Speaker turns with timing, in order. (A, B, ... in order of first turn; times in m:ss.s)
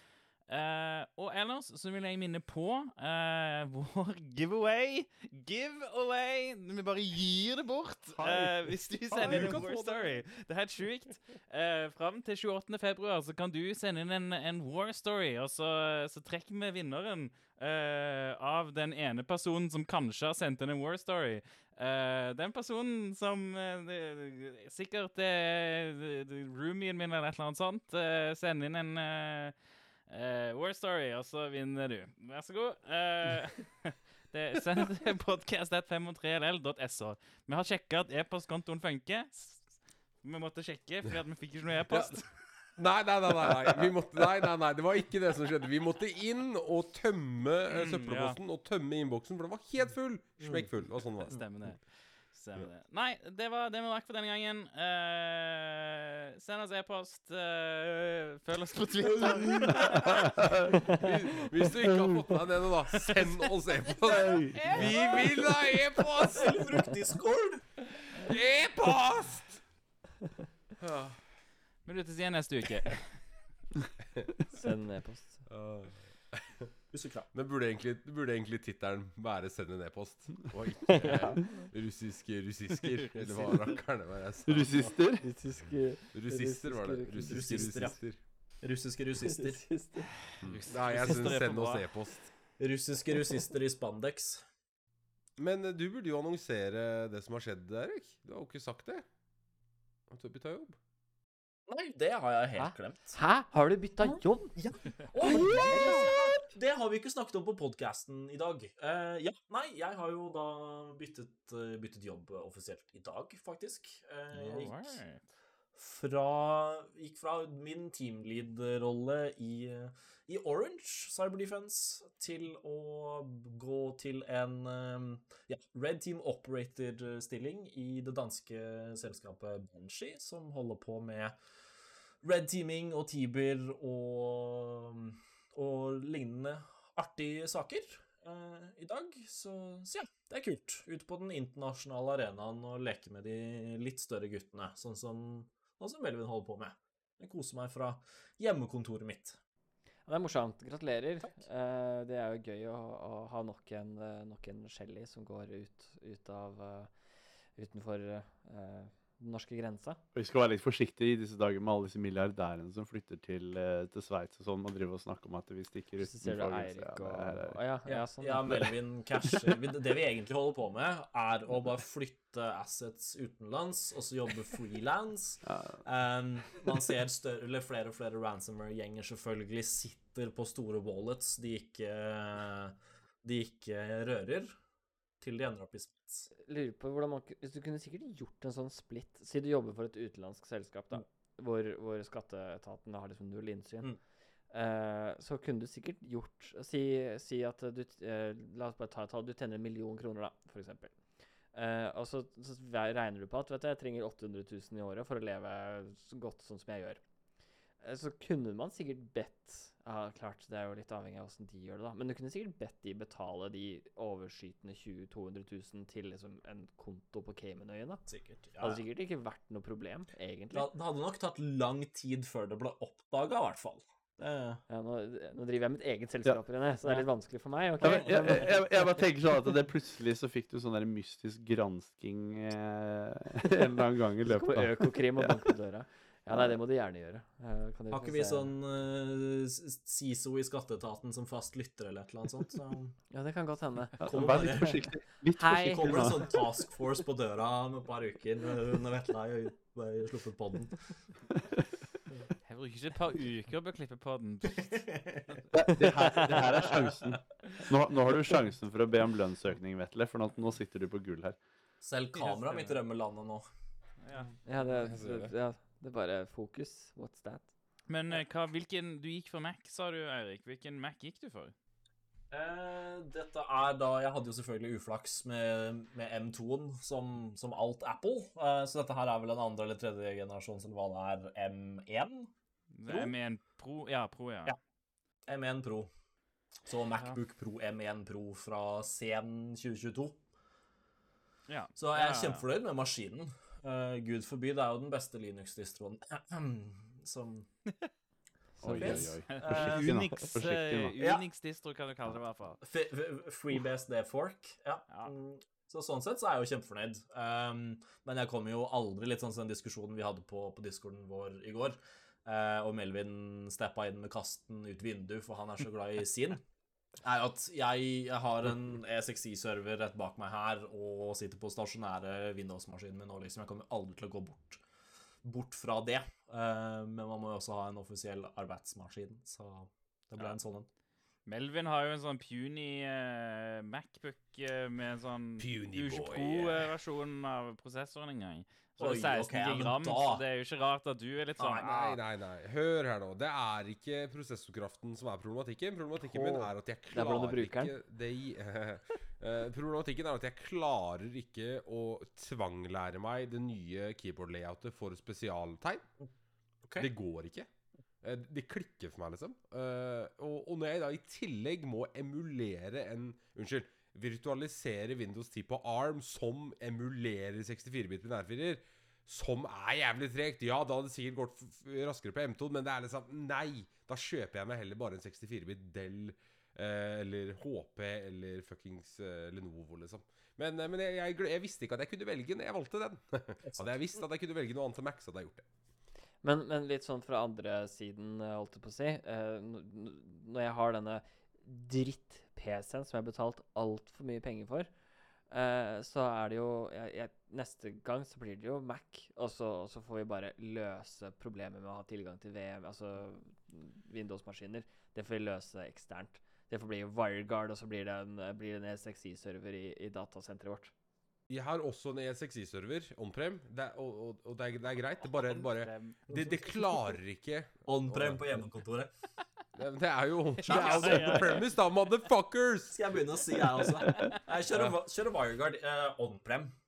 0:00.5-0:29.6 A
0:09.1-0:10.2 B
0:30.1-0:42.3 A
0:42.8-0:51.4 B
0:47.7-0:48.4 A
0:50.4-0:50.7 C
0:51.3-1:00.8 A
0:59.0-1:00.1 C
0:59.9-1:06.8 B
1:03.1-1:05.6 A
1:04.2-1:04.6 D
1:04.7-1:05.0 C
1:06.2-1:07.7 C
1:08.2-1:09.6 B
1:10.8-1:11.2 B
1:11.8-1:13.3 A
1:14.5-1:15.5 E
1:15.5-1:16.7 B
1:16.9-1:17.3 C
1:17.3-1:25.0 B
1:20.9-1:21.4 E
1:21.3-1:21.7 C
1:22.8-1:23.8 A
1:24.5-1:25.3 D
1:25.2-1:27.8 E
1:26.1-1:28.2 B
1:27.2-1:28.0 C
1:28.6-1:29.8 C
1:29.2-1:30.1 E
1:30.3-1:32.2 A
1:30.4-1:32.3 B
1:32.6-1:34.5 C
1:35.4-1:39.0 B
1:40.1-1:40.8 B
1:41.7-1:43.2 C
1:42.6-1:44.6 E
1:44.0-1:55.0 C
1:45.3-1:45.9 E
1:54.3-1:55.2 A
1:55.8-2:11.4 C
2:12.2-2:29.4 C
2:30.1-2:36.9 E
2:37.6-2:40.0 E
2:40.1-2:47.6 D
2:46.0-2:48.7 E
2:47.9-3:04.6 C
2:55.4-2:55.8 D
3:05.2-3:06.3 C
3:06.4-3:13.9 E
3:14.5-3:21.0 E
3:21.5-3:27.0 E
3:27.8-3:38.0 E
3:38.1-3:38.8 C
3:38.6-3:40.7 E
3:40.5-3:44.6 C
3:44.7-3:48.7 E
3:47.8-3:55.4 D
3:47.8-3:48.5 C
3:54.2-3:58.5 E
3:56.3-3:56.6 D
3:57.9-4:03.0 C
4:03.1-4:06.2 E
4:04.0-4:06.4 D
4:04.0-4:04.8 C
4:05.6-4:11.1 C
4:12.5-4:15.0 A
4:14.5-4:17.2 C
4:15.5-4:21.4 D
4:21.8-4:23.5 C
4:22.2-4:22.8 A
4:24.0-4:24.3 A
4:24.4-4:27.5 E
4:24.7-4:25.3 B
4:27.9-4:31.5 A
4:32.3-4:42.3 C
4:42.8-4:44.6 A
4:42.9-4:43.1 C
4:45.3-4:45.9 C
4:46.6-4:50.2 C
4:51.5-4:52.4 A
4:51.8-4:57.5 C
4:58.6-5:01.0 D
4:58.6-5:02.6 A
4:58.6-5:00.3 C
5:02.6-5:16.4 C
5:17.0-5:24.6 C
5:25.2-5:30.7 C
5:31.3-5:42.0 A
5:35.4-5:36.7 B
5:38.8-5:40.2 C
5:41.4-5:41.9 C
5:41.6-5:55.9 B
5:46.2-5:47.7 E
5:56.8-5:57.5 B
5:58.0-6:25.4 B
6:26.2-6:34.7 E
6:35.3-6:50.7 E
6:51.3-6:58.4 B
6:55.0-6:56.0 A
6:56.1-6:56.4 C
6:57.7-6:58.9 C
6:59.6-7:02.8 B
7:00.4-7:01.5 A
7:00.5-7:01.4 C
7:02.7-7:06.5 C